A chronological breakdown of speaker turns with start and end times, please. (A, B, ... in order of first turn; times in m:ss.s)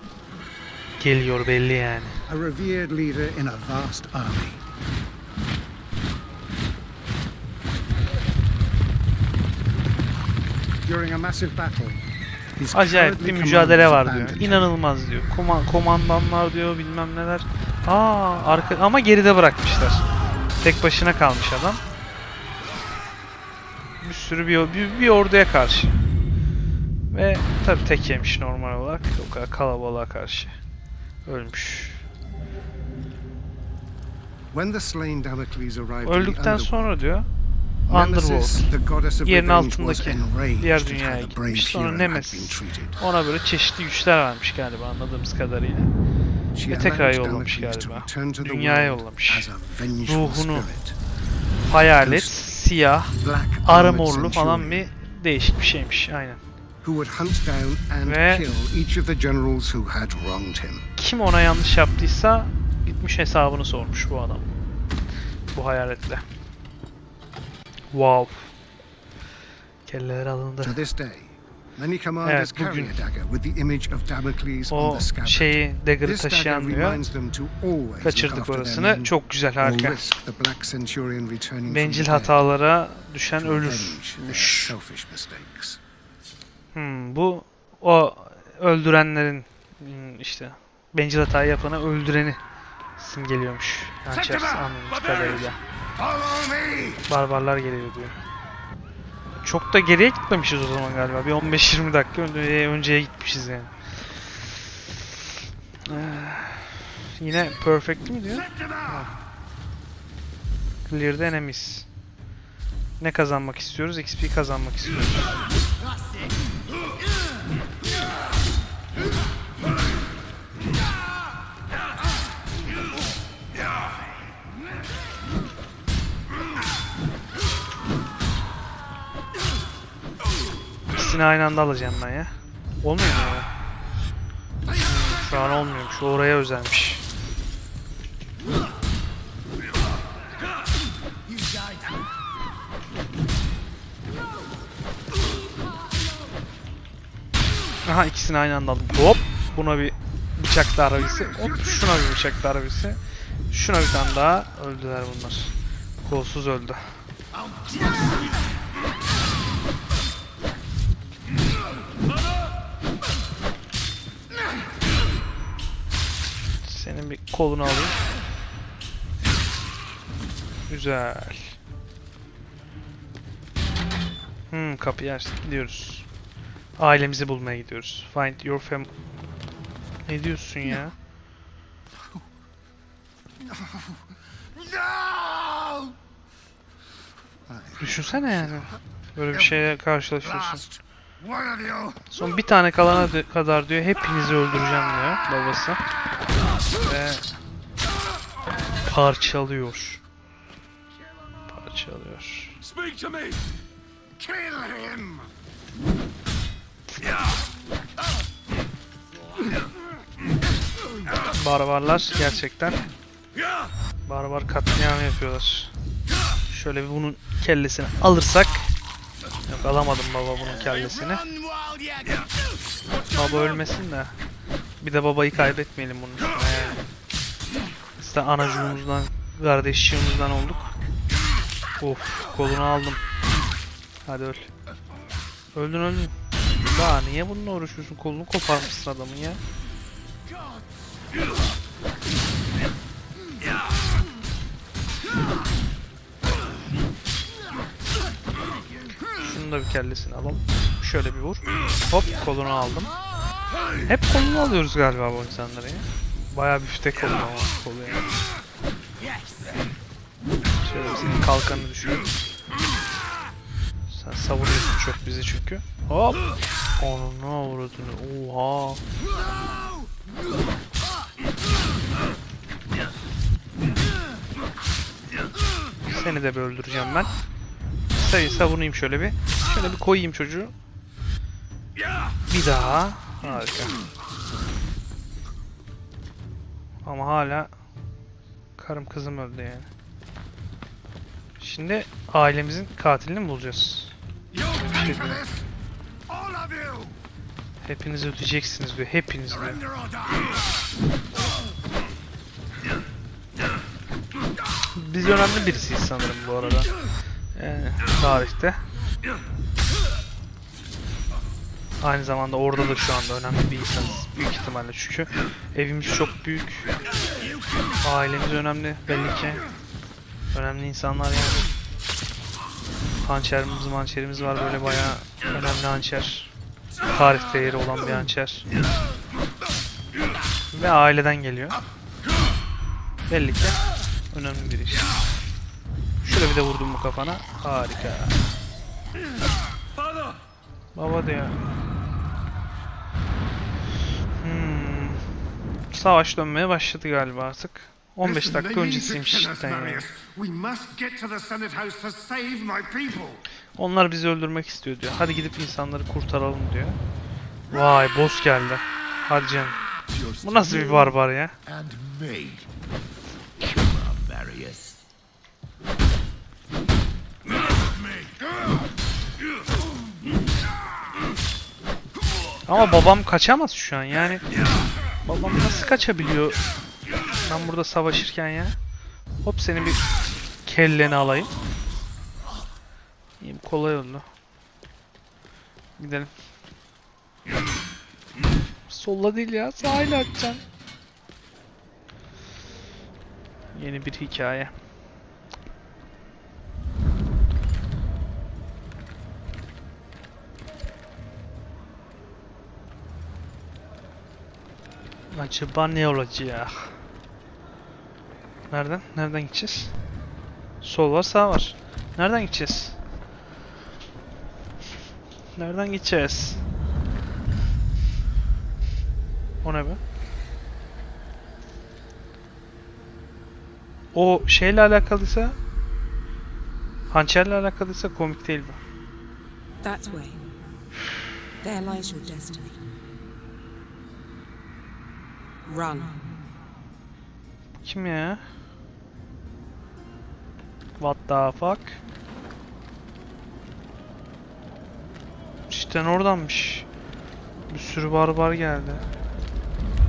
0:01.0-0:02.2 A
0:02.3-0:04.6 B
0:10.8-0:12.0 B
0:12.6-0:14.7 B
0:12.7-0:20.1 A
0:20.6-0:21.8 A
0:24.0-0:26.0 A
0:27.1-0:30.5 A
0:31.2-0:32.0 A
0:34.5-0:36.9 B
0:36.0-0:37.3 A
0:37.9-0:43.0 B
0:37.9-0:45.9 A
0:46.5-0:51.0 B
0:46.7-0:50.7 A
0:51.6-0:56.4 A
0:51.7-0:52.4 B
0:53.2-0:54.9 B
0:56.8-1:00.9 B
0:58.0-0:58.5 A
1:01.0-1:04.6 A
1:05.5-1:06.2 A
1:07.9-1:08.5 A
1:09.8-1:10.8 A
1:10.6-1:22.5 B
1:12.2-1:13.0 A
1:14.7-1:17.1 A
1:18.0-1:20.0 A
1:21.6-1:24.8 A
1:23.4-1:25.8 B
1:26.7-1:32.4 A
1:33.0-1:35.6 A
1:34.1-1:34.7 B
1:36.0-1:37.0 B
1:37.1-1:38.2 A
1:39.4-1:44.6 A
1:45.8-1:49.1 A
1:50.8-1:51.9 A
1:53.0-1:55.4 A
2:10.9-2:13.5 A
2:14.8-2:17.0 A
2:21.4-2:21.7 B
2:27.8-2:33.0 A
2:33.5-2:36.8 A
2:46.6-2:48.0 A
2:50.7-2:51.6 A
2:54.5-2:56.1 A
2:56.8-2:58.9 A
3:00.0-3:00.9 A
3:03.4-3:04.0 B
3:04.6-3:05.9 B
3:07.5-3:08.7 B
3:07.8-3:10.6 A
3:09.3-3:09.7 B
3:10.2-3:12.0 B
3:12.1-3:15.8 A
3:16.8-3:17.2 A
3:18.8-3:20.0 A
3:21.5-3:22.7 A
3:24.2-3:25.2 B
3:31.2-3:32.8 A
3:34.0-3:35.7 A
3:36.5-3:38.7 A
3:39.4-3:41.3 A
3:43.1-3:44.1 A
3:44.8-3:46.8 A
3:48.0-3:50.8 A
3:51.8-3:53.0 A
3:54.0-3:54.5 A
3:55.5-3:59.4 A
4:09.1-4:12.9 A
4:13.8-4:18.1 A
4:20.6-4:22.2 A
4:23.9-4:28.8 A
4:35.9-4:37.1 A
4:37.9-4:40.5 A
4:42.3-4:43.8 A
4:46.8-4:47.5 A
4:48.6-4:49.7 A
4:51.4-4:54.0 A
4:54.4-4:55.4 B
4:54.5-4:55.2 A
4:56.1-4:57.0 B
4:57.6-4:59.6 A
4:59.4-5:00.3 B
5:04.7-5:06.7 A
5:07.3-5:08.6 A
5:11.8-5:16.7 A
5:17.8-5:19.4 A
5:20.3-5:21.5 A
5:23.0-5:28.5 A
5:30.5-5:31.6 A
5:33.1-5:33.6 A
5:34.1-5:35.0 A
5:36.0-5:38.2 A
5:40.7-5:41.4 A
5:44.2-5:45.0 A
5:45.7-5:49.9 A
5:48.0-5:53.2 B
5:53.5-5:56.8 A
5:57.5-5:59.6 A
5:59.9-6:02.4 B
6:00.2-6:01.4 A
6:03.5-6:04.7 B
6:12.5-6:14.2 A
6:15.0-6:16.4 A
6:17.1-6:18.5 A
6:19.2-6:19.8 A
6:20.4-6:21.3 A
6:23.2-6:24.0 A
6:25.8-6:26.1 A
6:28.7-6:30.4 A
6:33.5-6:34.5 A
6:45.1-6:46.8 A
6:48.5-6:49.7 A
6:50.6-6:52.8 A
6:55.4-6:56.4 A
6:59.4-6:59.8 A
7:03.9-7:05.4 A
7:06.9-7:08.6 A
7:09.6-7:10.2 C
7:11.4-7:12.6 C
7:15.4-7:16.2 C
7:17.6-7:18.2 A
7:20.8-7:21.8 A
7:25.5-7:26.7 A
7:27.5-7:28.8 A